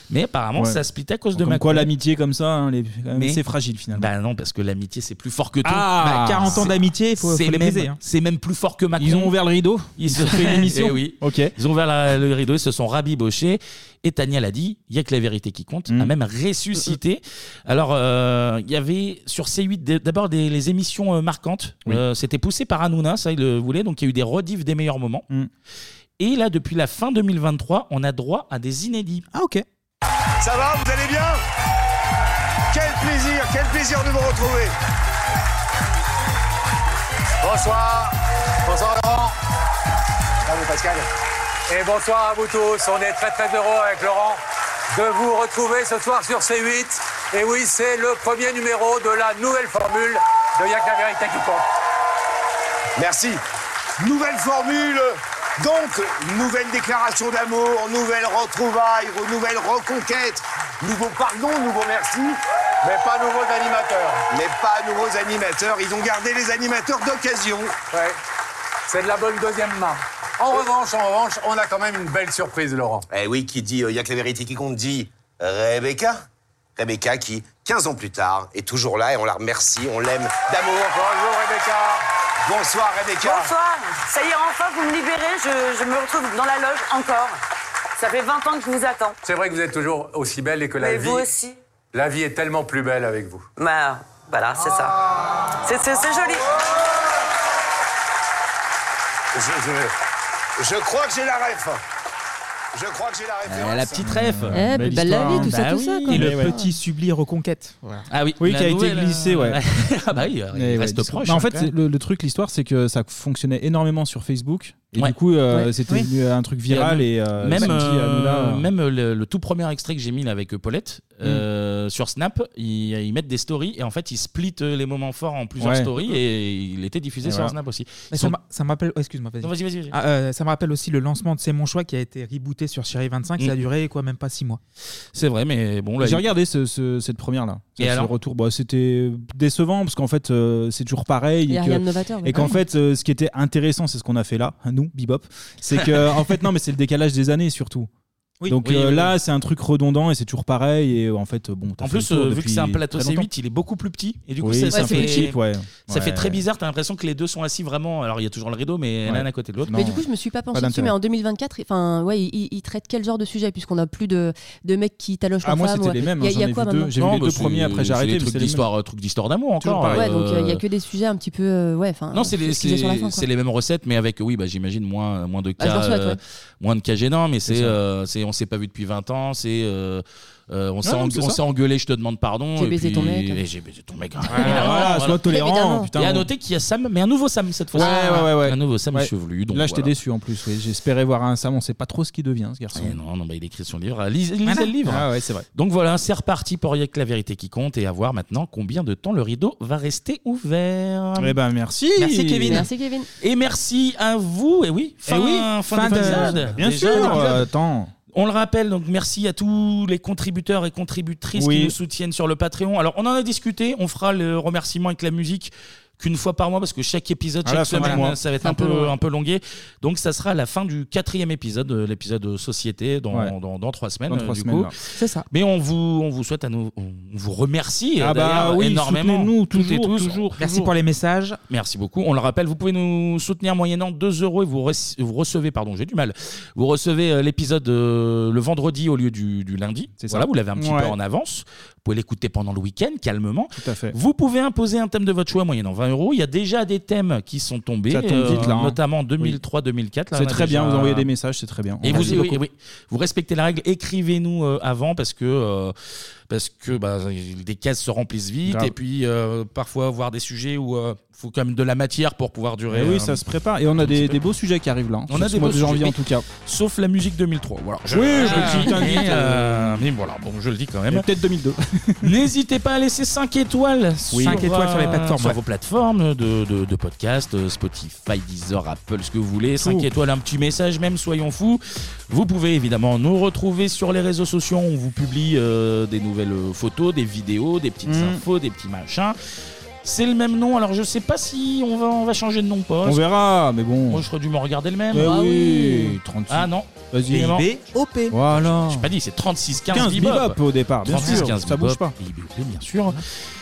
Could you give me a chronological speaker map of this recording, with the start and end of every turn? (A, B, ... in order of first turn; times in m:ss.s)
0:00.1-0:01.9 A
0:00.6-0:00.8 B
0:01.4-0:04.1 B
0:03.2-0:03.4 A
0:04.0-0:09.3 A
0:05.7-0:08.0 C
0:05.8-0:06.7 B
0:09.0-0:11.5 B
0:10.0-0:25.3 A
0:26.2-0:29.3 A
0:29.3-0:29.6 C
0:30.4-0:31.4 D
0:32.7-0:34.7 D
0:37.4-0:38.1 E
0:38.6-0:39.3 E
0:40.5-0:41.0 D
0:41.7-0:44.4 E
0:44.9-0:51.6 E
0:53.0-0:53.4 D
0:54.0-1:02.4 D
1:02.8-1:04.2 E
1:04.3-1:07.7 D
1:07.9-1:08.2 E
1:08.9-1:13.0 E
1:13.1-1:16.2 D
1:16.8-1:21.1 D
1:21.0-1:22.0 E
1:22.4-1:23.5 D
1:23.2-1:27.4 F
1:28.0-1:29.2 F
1:29.2-1:31.3 E
1:30.8-1:31.6 F
1:31.9-1:33.4 E
1:33.6-1:35.0 F
1:35.6-1:36.4 F
1:39.4-1:39.8 D
1:40.6-1:41.8 D
1:42.7-1:44.0 D
1:43.4-1:46.4 A
1:44.0-1:45.6 B
1:44.5-1:46.7 G
1:46.1-1:46.6 B
1:46.1-1:48.1 C
1:48.1-1:51.7 A
1:48.4-1:49.6 B
1:50.5-1:58.7 B
1:56.7-2:08.4 A
2:05.6-2:05.9 B
2:07.2-2:07.6 B
2:08.1-2:14.6 C
2:09.4-2:10.0 A
2:15.1-2:16.3 A
2:16.0-2:27.9 B
2:17.8-2:18.1 A
2:21.5-2:22.6 G
2:28.5-2:33.3 B
2:28.6-2:29.1 A
2:31.8-2:35.4 A
2:34.4-2:36.4 B
2:35.9-2:39.8 A
2:39.1-2:40.9 B
2:39.7-2:46.9 G
2:45.4-2:48.6 B
2:47.0-2:50.6 A
2:49.6-2:50.1 B
2:49.9-2:53.3 G
2:52.1-3:05.4 A
2:55.6-2:56.2 G
2:57.5-2:57.8 B
3:00.8-3:01.4 B
3:02.6-3:03.4 G
3:04.3-3:06.3 B
3:05.2-3:05.9 G
3:06.0-3:09.9 A
3:07.7-3:13.0 B
3:12.8-3:21.3 A
3:14.4-3:14.7 C
3:14.8-3:15.5 B
3:21.2-3:22.7 B
3:22.0-3:22.6 C
3:22.1-3:23.1 G
3:23.2-3:27.4 A
3:25.1-3:27.9 B
3:25.7-3:27.1 C
3:28.1-3:44.7 A
3:31.4-3:31.8 B
3:37.4-3:38.2 B
3:44.1-3:44.7 B
3:45.0-3:45.3 C
3:45.3-3:50.7 A
3:48.0-3:50.3 B
3:50.4-3:51.4 C
3:51.5-4:11.1 A
4:00.0-4:01.0 B
4:03.6-4:04.0 B
4:07.9-4:09.4 B
4:10.1-4:12.4 B
4:11.8-4:15.7 A
4:16.3-4:23.2 A
4:18.5-4:18.7 B
4:22.7-4:26.2 B
4:23.8-4:24.2 A
4:25.1-4:31.0 A
4:27.9-4:29.8 B
4:30.9-4:32.1 B
4:32.0-4:49.2 A
4:34.1-4:34.4 B
4:34.2-4:35.4 C
4:39.6-4:39.9 B
4:47.8-4:48.2 B
4:49.8-4:53.0 A
4:52.8-4:54.0 B
4:53.9-4:55.4 A
4:54.9-4:57.4 B
4:56.3-4:57.5 A
4:57.2-4:58.2 C
4:58.1-4:58.9 B
4:58.4-5:03.0 A
4:59.7-5:02.0 B
5:01.0-5:01.3 C